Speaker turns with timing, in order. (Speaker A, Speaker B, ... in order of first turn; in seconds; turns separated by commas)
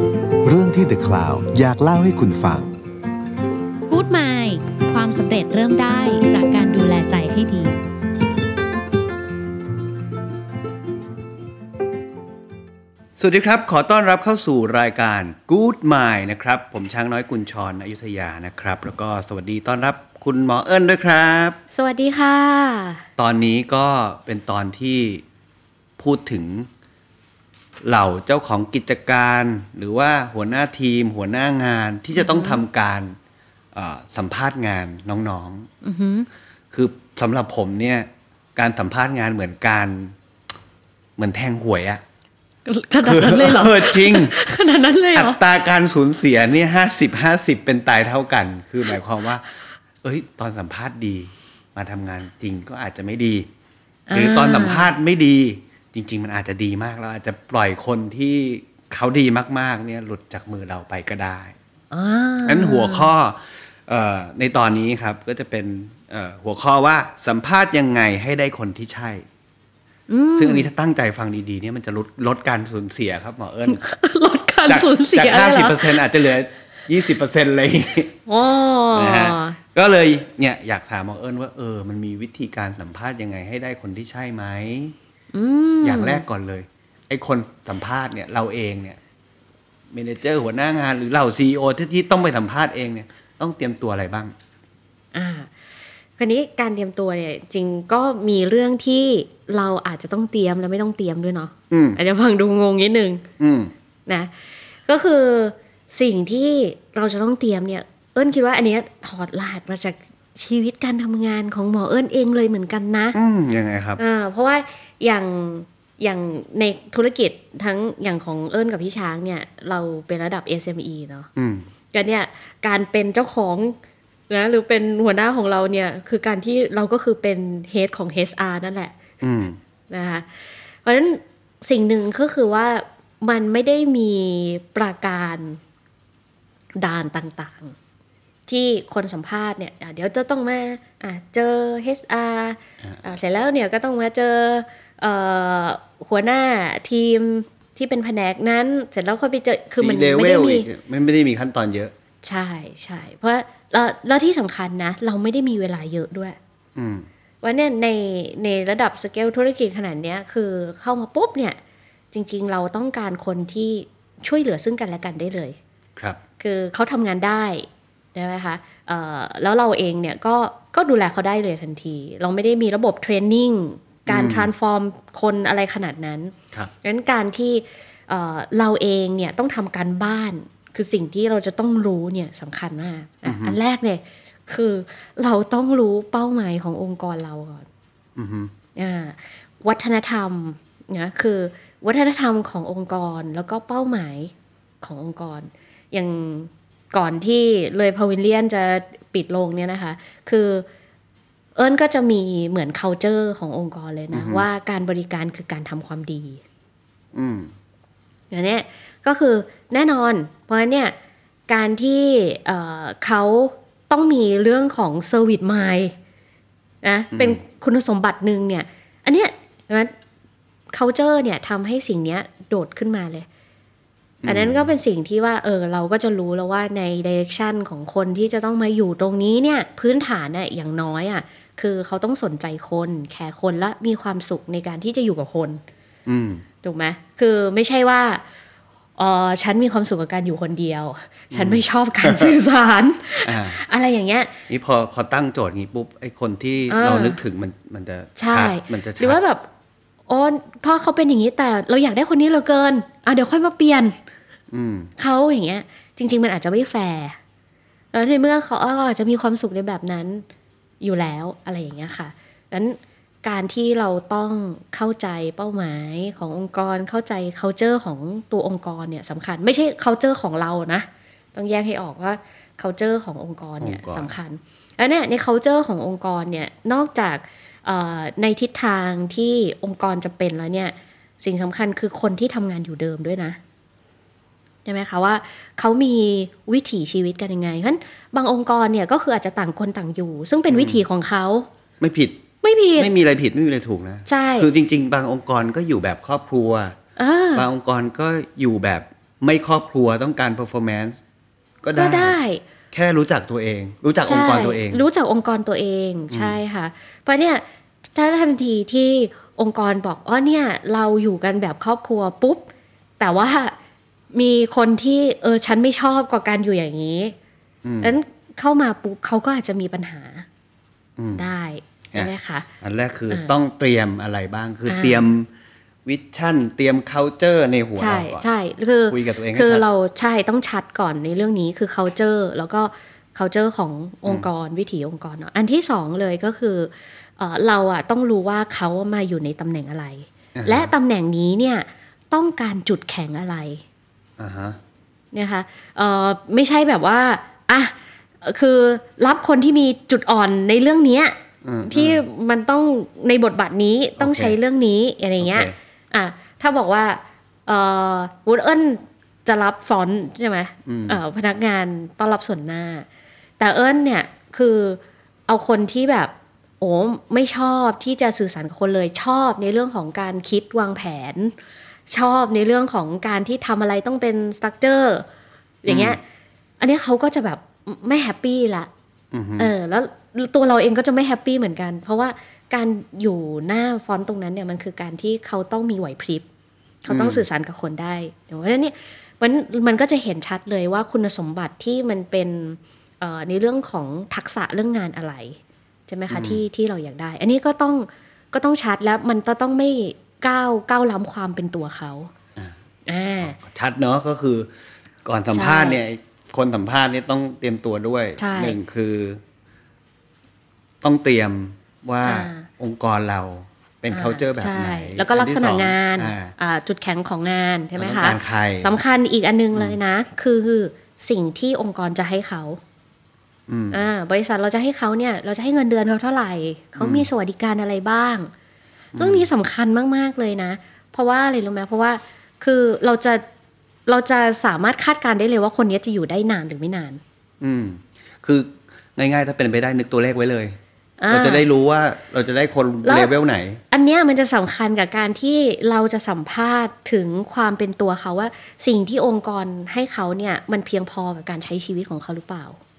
Speaker A: 0.4-2.7, Speaker B: 3.9-7.8, Speaker C: 13.2-21.6, Speaker B: 21.7-23.0, Speaker C: 23.2-25.2, Speaker C: 26.0-26.7, Speaker C: 27.8-33.1, Speaker B: 32.1-32.6, Speaker C: 33.7-35.7, Speaker B: 35.8-36.3, Speaker C: 36.7-40.1, Speaker C: 41.2-42.0, Speaker B: 42.6-45.4, Speaker C: 43.0-44.5, Speaker C: 45.1-49.5, Speaker C: 50.0-53.5, Speaker B: 54.1-54.9, Speaker C: 54.1-61.5, Speaker B: 61.9-63.1, Speaker C: 62.4-69.2, Speaker B: 70.1-70.7, Speaker C: 70.3-73.8, Speaker B: 73.7-76.0, Speaker C: 74.7-78.1, Speaker B: 78.3-79.6, Speaker C: 78.9-84.9, Speaker B: 85.3-86.2, Speaker C: 85.8-89.0, Speaker C: 89.9-94.3, Speaker B: 95.1-95.5, Speaker B: 96.2-103.2, Speaker C: 101.7-102.0, Speaker C: 103.4-103.7, Speaker B: 104.0-104.3, Speaker B: 104.8-113.2, Speaker C: 113.1-114.0, Speaker B: 114.0-121.3, Speaker C: 121.3-121.7, Speaker B: 121.9-123.8, Speaker B: 124.3-128.9, Speaker C: 129.2-129.6, Speaker B: 129.9-130.3, Speaker B: 130.8-135.6, Speaker B: 136.8-137.7, Speaker B: 138.5-150.7, Speaker C: 149.8-151.9, Speaker B: 152.2-156.4, Speaker C: 156.7-157.1, Speaker B: 157.4-161.6, Speaker B: 162.1-165.6, Speaker B: 166.4-187.7, Speaker C: 174.1-174.5, Speaker C: 183.2-183.6, Speaker C: 188.2-188.5, Speaker B: 188.8-200.7, Speaker B: 201.6-206.4, Speaker C: 204.1-204.4, Speaker C: 207.1-207.5, Speaker B: 208.3-210.9, Speaker B: 211.5-215.9, Speaker B: 216.8-219.9, Speaker C: 217.1-217.4, Speaker B: 220.7-223.3, Speaker C: 224.2-224.7, Speaker B: 224.2-235.6, Speaker C: 236.1-236.4, Speaker B: 236.6-238.2, Speaker B: 239.0-244.3, Speaker C: 241.3-242.3, Speaker C: 243.2-243.6, Speaker C: 244.5-249.2, Speaker B: 246.7-247.2, Speaker B: 248.2-249.4, Speaker B: 250.1-253.9, Speaker C: 254.5-254.9, Speaker B: 255.0-257.2, Speaker B: 257.9-260.2, Speaker B: 260.8-283.4, Speaker C: 273.6-274.1, Speaker B: 284.6-291.5, Speaker C: 290.5-290.8, Speaker C: 291.8-292.2, Speaker B: 292.4-292.9, Speaker C: 292.8-296.8, Speaker B: 294.1-294.5, Speaker B: 297.0-297.4, Speaker C: 297.3-300.9, Speaker C: 301.6-302.1, Speaker B: 301.7-302.4, Speaker C: 302.7-304.8, Speaker B: 304.0-307.4, Speaker C: 306.1-306.4, Speaker B: 307.9-312.5, Speaker B: 313.0-313.5, Speaker B: 314.1-317.1, Speaker C: 317.6-317.9, Speaker B: 317.8-320.2, Speaker C: 321.0-321.2, Speaker B: 321.1-322.5, Speaker C: 321.9-325.3, Speaker B: 324.7-325.1, Speaker C: 325.8-328.2, Speaker B: 327.8-343.6, Speaker C: 328.9-329.6, Speaker C: 340.4-340.7, Speaker C: 344.2-344.6, Speaker B: 345.1-362.9, Speaker C: 351.4-352.0, Speaker C: 354.0-354.4, Speaker C: 355.2-355.5, Speaker C: 360.6-361.0, Speaker B: 363.4-371.3, Speaker B: 371.9-375.1, Speaker B: 375.6-376.0, Speaker C: 375.7-376.0, Speaker B: 376.6-378.7, Speaker C: 379.1-379.5, Speaker B: 379.4-386.2, Speaker B: 386.8-402.1, Speaker C: 386.9-387.2, Speaker C: 396.1-396.4, Speaker B: 402.9-403.4, Speaker C: 403.2-404.5, Speaker C: 405.0-409.2, Speaker B: 405.3-405.8, Speaker B: 408.2-408.6, Speaker C: 410.8-416.3, Speaker B: 412.0-412.5, Speaker B: 413.9-422.6, Speaker C: 417.8-418.7, Speaker C: 423.5-423.8, Speaker B: 423.7-428.3, Speaker C: 426.8-427.1, Speaker C: 428.9-429.3, Speaker B: 428.9-433.2, Speaker B: 433.9-437.0, Speaker C: 437.4-440.6, Speaker B: 441.0-441.4, Speaker C: 441.1-443.6, Speaker B: 442.8-443.1, Speaker B: 443.7-452.6